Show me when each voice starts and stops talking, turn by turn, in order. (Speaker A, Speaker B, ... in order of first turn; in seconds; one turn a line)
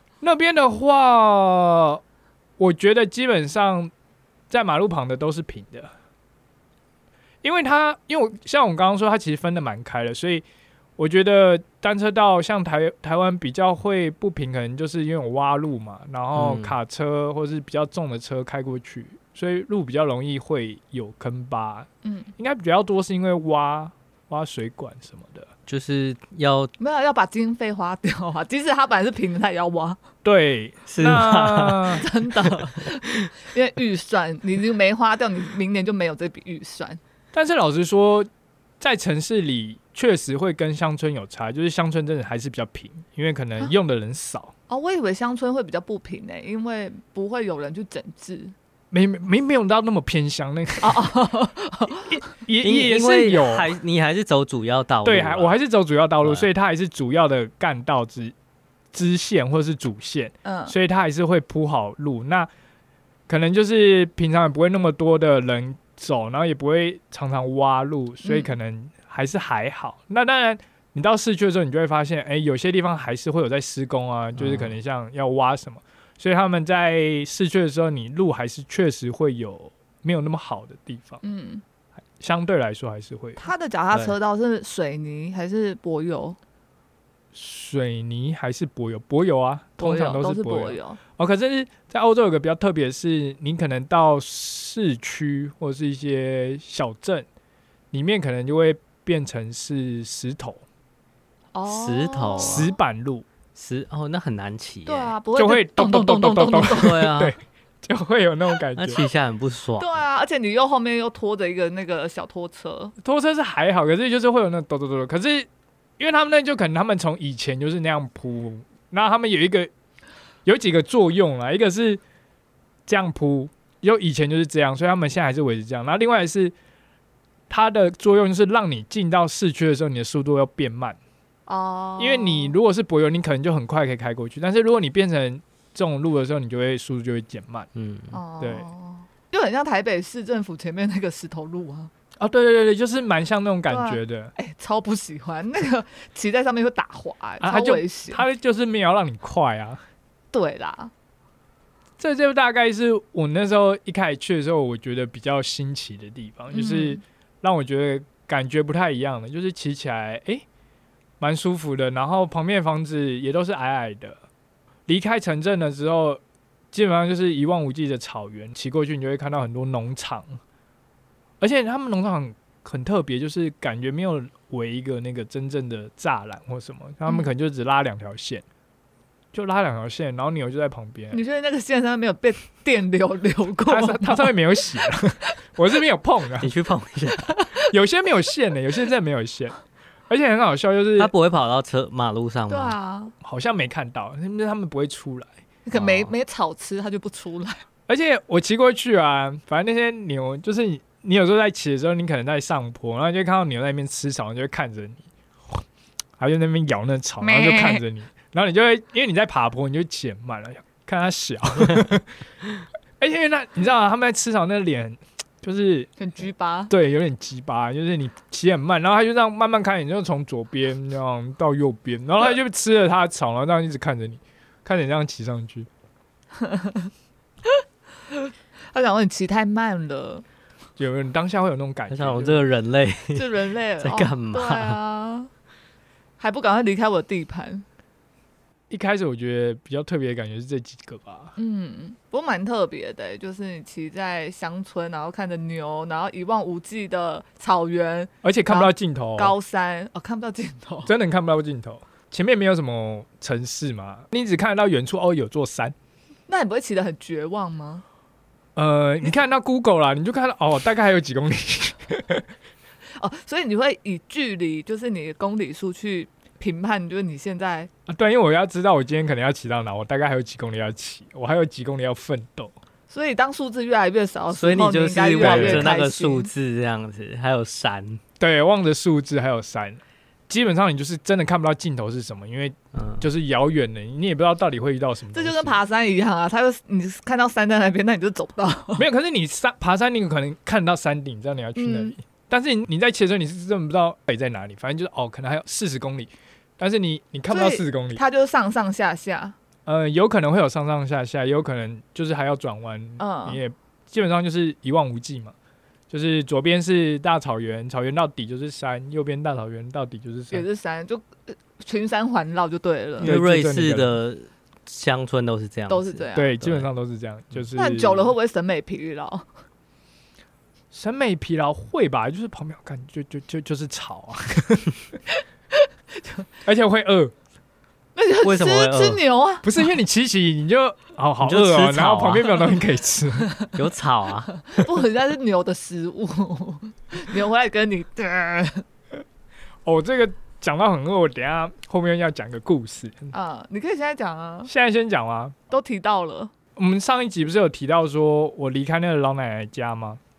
Speaker A: 0.2-2.0
Speaker A: 2.6-3.9
Speaker A: 4.5-5.9
Speaker A: 7.4-10.4
Speaker A: 11.0-25.5
Speaker B: 16.4-16.7
Speaker C: 22.0-22.3
Speaker B: 25.7-26.7
Speaker C: 26.8-30.0
Speaker A: 30.2-32.1
Speaker B: 30.9-32.7
Speaker C: 32.0-37.0
Speaker A: 37.3-38.3
Speaker A: 38.8-44.5
Speaker C: 44.7-48.5
Speaker A: 48.9-51.1
Speaker C: 50.8-52.3
Speaker A: 51.9-53.8
Speaker B: 52.6-55.5
Speaker A: 55.0-58.4
Speaker B: 56.2-56.5
Speaker A: 58.9-62.5
Speaker C: 60.4-60.7
Speaker A: 63.3-81.2
Speaker C: 68.2-68.5
Speaker B: 74.4-74.8
Speaker C: 81.2-81.6
Speaker A: 82.2-83.4
Speaker C: 83.4-86.4
Speaker A: 87.3-97.3
Speaker C: 89.8-91.0
Speaker A: 97.9-100.6
Speaker C: 101.5-102.7
Speaker B: 101.7-102.7
Speaker A: 102.4-103.3
Speaker B: 103.5-105.2
Speaker C: 104.9-107.1
Speaker A: 105.3-109.0
Speaker B: 106.6-107.3
Speaker B: 108.8-110.0
Speaker C: 109.8-112.9
Speaker A: 113.0-115.5
Speaker A: 116.0-119.7
Speaker A: 120.5-122.0
Speaker A: 122.9-126.5
Speaker A: 127.5-131.0
Speaker C: 131.5-132.6
Speaker A: 132.0-137.7
Speaker B: 137.8-138.2
Speaker C: 138.1-141.9
Speaker A: 138.4-138.7
Speaker A: 142.2-144.3
Speaker C: 143.7-148.2
Speaker A: 147.4-149.8
Speaker C: 150.3-150.9
Speaker A: 152.0-160.4
Speaker C: 156.5-157.0
Speaker A: 161.2-164.2
Speaker A: 164.9-166.2
Speaker A: 166.7-170.4
Speaker A: 171.4-178.4
Speaker A: 179.3-181.2
Speaker C: 181.1-184.3
Speaker A: 183.7-186.5
Speaker B: 186.4-187.3
Speaker C: 187.3-187.7
Speaker A: 187.7-189.6
Speaker A: 190.1-191.1
Speaker B: 191.0-192.8
Speaker C: 192.5-193.1
Speaker A: 193.2-195.3
Speaker C: 195.7-197.6
Speaker B: 195.7-196.1
Speaker A: 197.9-205.6
Speaker A: 206.2-212.1
Speaker C: 207.2-207.8
Speaker A: 213.0-215.9
Speaker C: 216.0-216.7
Speaker A: 216.7-225.7
Speaker C: 226.4-226.9
Speaker C: 228.7-230.2
Speaker A: 230.8-232.4
Speaker B: 231.9-234.8
Speaker C: 233.1-235.3
Speaker C: 236.2-237.7
Speaker A: 238.7-241.3
Speaker C: 241.4-250.9
Speaker A: 248.2-249.3
Speaker A: 250.9-255.8
Speaker C: 256.3-257.8
Speaker A: 258.6-262.3
Speaker C: 263.0-267.7
Speaker A: 267.9-272.5
Speaker C: 272.9-276.3
Speaker B: 274.3-278.0
Speaker A: 275.2-275.7
Speaker A: 278.2-285.6
Speaker B: 282.7-283.1
Speaker C: 285.1-288.9
Speaker A: 288.8-298.0
Speaker C: 291.6-291.9
Speaker C: 297.3-299.4
Speaker A: 299.7-305.3
Speaker C: 303.0-303.4
Speaker A: 305.9-310.5
Speaker C: 310.3-313.1
Speaker B: 313.0-316.7
Speaker A: 313.0-314.0
Speaker C: 315.7-316.4
Speaker A: 316.2-318.1
Speaker C: 317.6-319.3
Speaker A: 320.7-324.9
Speaker C: 326.0-326.2
Speaker A: 326.4-327.1
Speaker C: 328.0-329.6
Speaker B: 328.2-329.0
Speaker A: 329.4-333.4
Speaker B: 331.2-332.6
Speaker B: 333.5-334.3
Speaker C: 334.3-338.6
Speaker A: 339.6-343.1
Speaker C: 343.1-344.5
Speaker A: 344.5-345.4
Speaker C: 345.5-346.3
Speaker A: 346.6-350.0